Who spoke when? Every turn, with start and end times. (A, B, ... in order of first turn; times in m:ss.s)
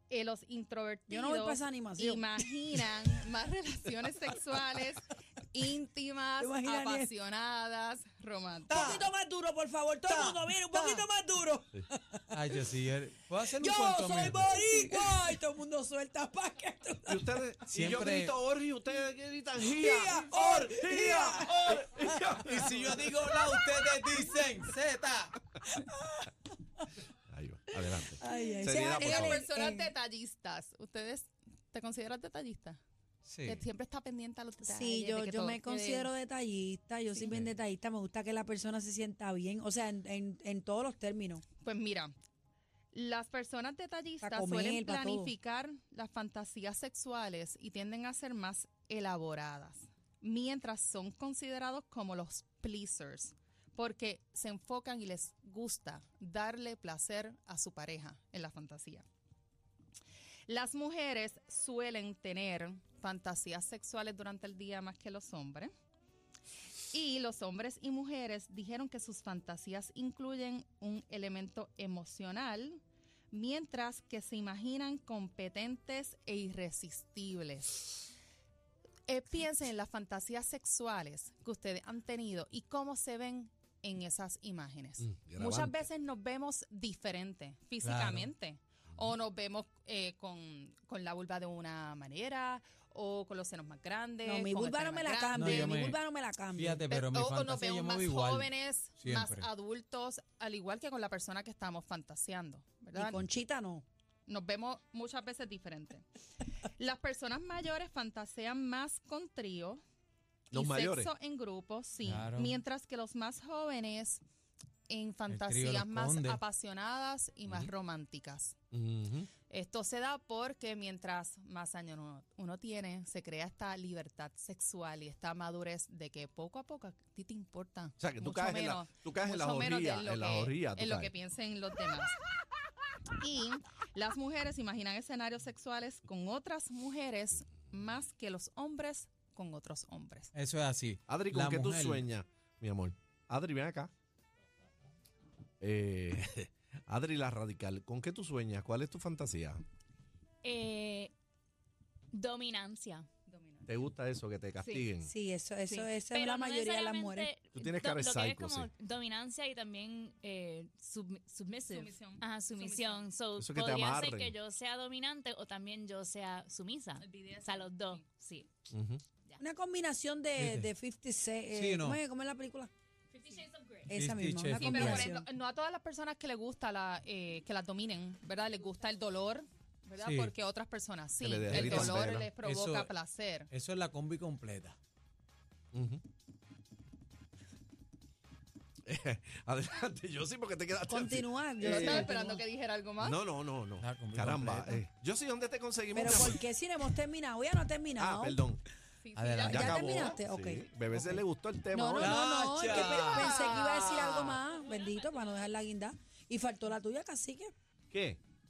0:00.1-0:09.0 A
0:01.1-0:02.7 B
0:06.4-0:07.1 B
0:08.7-0:12.6 B
0:10.1-0:10.4 C
0:12.3-0:15.2 C
0:13.4-0:17.4 B
0:17.1-0:22.9 D
0:17.7-0:18.4 C
0:19.6-0:22.1 B
0:22.4-0:25.4 C
0:25.8-0:26.3 B
0:27.3-0:29.4 D
0:28.1-0:29.9 B
0:29.0-0:32.8 A
0:33.3-0:33.6 C
0:33.4-0:36.1 A
0:34.6-0:41.4 B
0:41.6-0:42.1 A
0:42.9-0:59.1 A
0:44.2-0:45.4 B
1:00.5-1:05.7 A
1:06.9-1:17.9 A
1:19.1-1:35.9 A
1:25.0-1:25.8 D
1:27.8-1:28.3 C
1:34.2-1:36.8 B
1:35.4-1:36.0 C
1:36.6-1:39.5 C
1:36.9-1:43.2 A
1:42.9-1:43.8 B
1:44.3-1:46.0 A
1:46.6-1:49.8 A
1:50.5-1:51.1 D
1:50.5-1:54.2 A
1:52.0-1:52.6 C
1:54.9-1:58.6 A
1:55.3-1:56.4 C
1:58.7-1:59.3 D
1:59.5-2:12.2 A
2:08.0-2:11.1 D
2:13.2-2:20.3 A
2:20.4-2:22.1 C
2:21.1-2:23.9 D
2:25.6-2:29.6 D
2:30.4-2:31.1 E
2:32.1-2:33.1 E
2:33.3-2:33.7 A
2:33.7-2:35.1 D
2:35.0-2:37.3 B
2:35.7-2:48.5 E
2:37.5-2:38.7 D
2:41.6-2:43.0 A
2:43.4-2:44.4 D
2:47.0-2:48.3 A
2:48.7-2:49.0 D
2:49.4-2:52.7 B
2:50.4-2:50.7 C
2:51.6-2:52.0 C
2:53.1-2:53.9 E
2:53.9-2:55.2 B
2:53.9-2:55.1 C
2:54.6-3:03.5 A
3:00.0-3:00.3 C
3:01.2-3:02.3 D
3:01.5-3:02.9 C
3:03.5-3:04.8 C
3:05.7-3:06.0 D
3:08.9-3:12.1 D
3:10.9-3:12.4 B
3:11.6-3:13.2 A
3:13.0-3:16.4 D
3:13.8-3:14.8 C
3:15.9-3:18.4 B
3:18.0-3:18.6 D
3:19.0-3:20.2 A
3:19.2-3:19.6 C
3:19.5-3:24.0 D
3:19.5-3:21.2 B
3:21.7-3:27.5 B
3:22.0-3:23.3 C
3:24.0-3:24.4 C
3:27.9-3:28.2 D